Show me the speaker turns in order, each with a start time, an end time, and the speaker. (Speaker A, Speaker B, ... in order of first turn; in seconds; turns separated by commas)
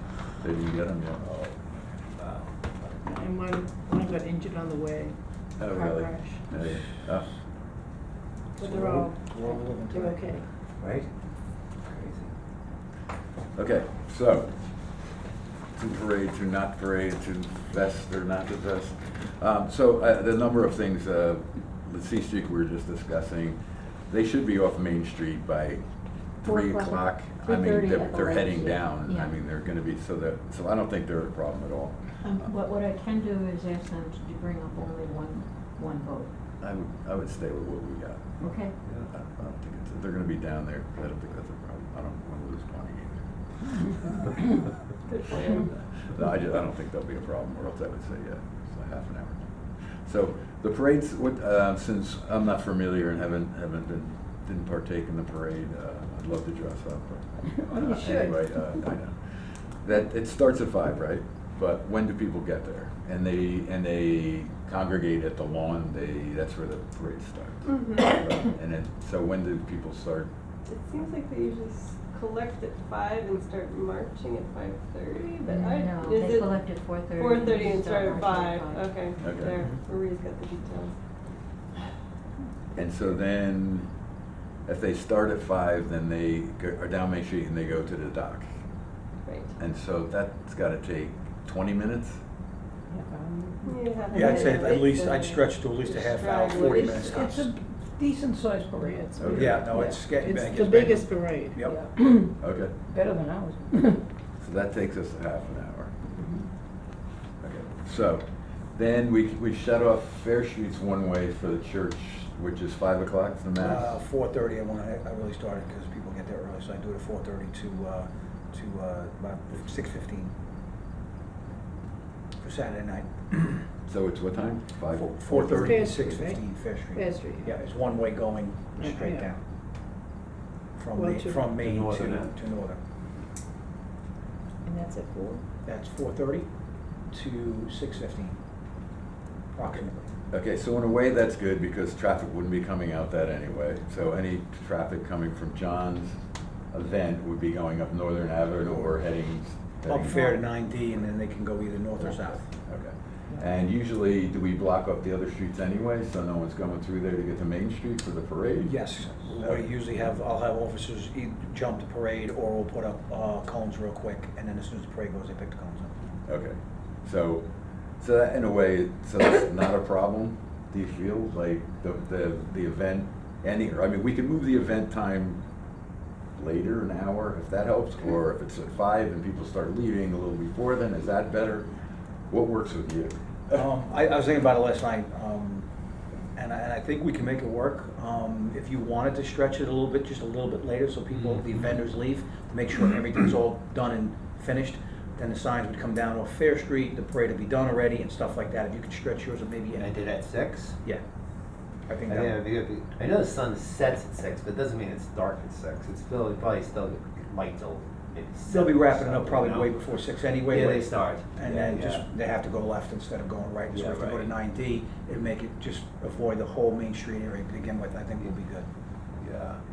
Speaker A: 0.3-1.4, Speaker B: 1.9-2.9, Speaker C: 3.0-6.4, Speaker A: 5.6-7.4, Speaker C: 8.6-10.4, Speaker D: 8.6-10.4, Speaker B: 10.8-11.1, Speaker B: 11.8-12.3, Speaker A: 13.5-15.0, Speaker A: 15.8-23.6, Speaker A: 24.1-25.9, Speaker A: 26.4-32.5, Speaker E: 26.4-29.4, Speaker E: 32.2-36.3, Speaker A: 36.6-38.2, Speaker E: 38.4-38.7, Speaker A: 39.0-43.2, Speaker A: 43.8-44.4, Speaker F: 45.1-45.7, Speaker A: 45.5-70.3, Speaker E: 57.7-58.8, Speaker F: 67.7-68.1, Speaker F: 70.7-81.0, Speaker E: 75.5-78.9, Speaker A: 79.2-79.6, Speaker A: 82.8-83.9, Speaker A: 84.7-88.5, Speaker F: 89.2-89.5, Speaker A: 89.6-92.2, Speaker C: 92.9-93.6, Speaker F: 93.6-97.0, Speaker D: 94.1-97.5, Speaker C: 96.6-102.4, Speaker A: 99.2-99.7, Speaker D: 99.3-101.8, Speaker A: 102.4-102.7, Speaker C: 102.9-104.0, Speaker A: 104.4-105.9, Speaker C: 106.2-106.5, Speaker A: 107.4-113.9, Speaker D: 113.6-120.3, Speaker D: 122.4-123.7, Speaker A: 123.9-125.9, Speaker D: 124.9-129.4, Speaker C: 125.6-127.5, Speaker C: 128.8-129.3, Speaker D: 130.8-132.8, Speaker C: 130.9-131.6, Speaker B: 131.6-132.3, Speaker C: 134.7-135.4, Speaker D: 135.7-136.5, Speaker D: 137.1-138.4, Speaker D: 139.6-140.1, Speaker A: 140.3-146.2, Speaker A: 146.7-150.3, Speaker D: 149.9-152.5, Speaker A: 152.1-159.7, Speaker D: 158.6-165.9, Speaker A: 166.3-167.5, Speaker A: 168.0-175.4, Speaker A: 176.4-181.7, Speaker A: 182.3-183.7, Speaker D: 183.5-185.7, Speaker D: 186.3-199.9, Speaker B: 199.8-200.8, Speaker D: 201.9-202.4, Speaker B: 202.1-212.1, Speaker D: 208.5-218.7, Speaker B: 213.7-214.3, Speaker B: 219.2-219.6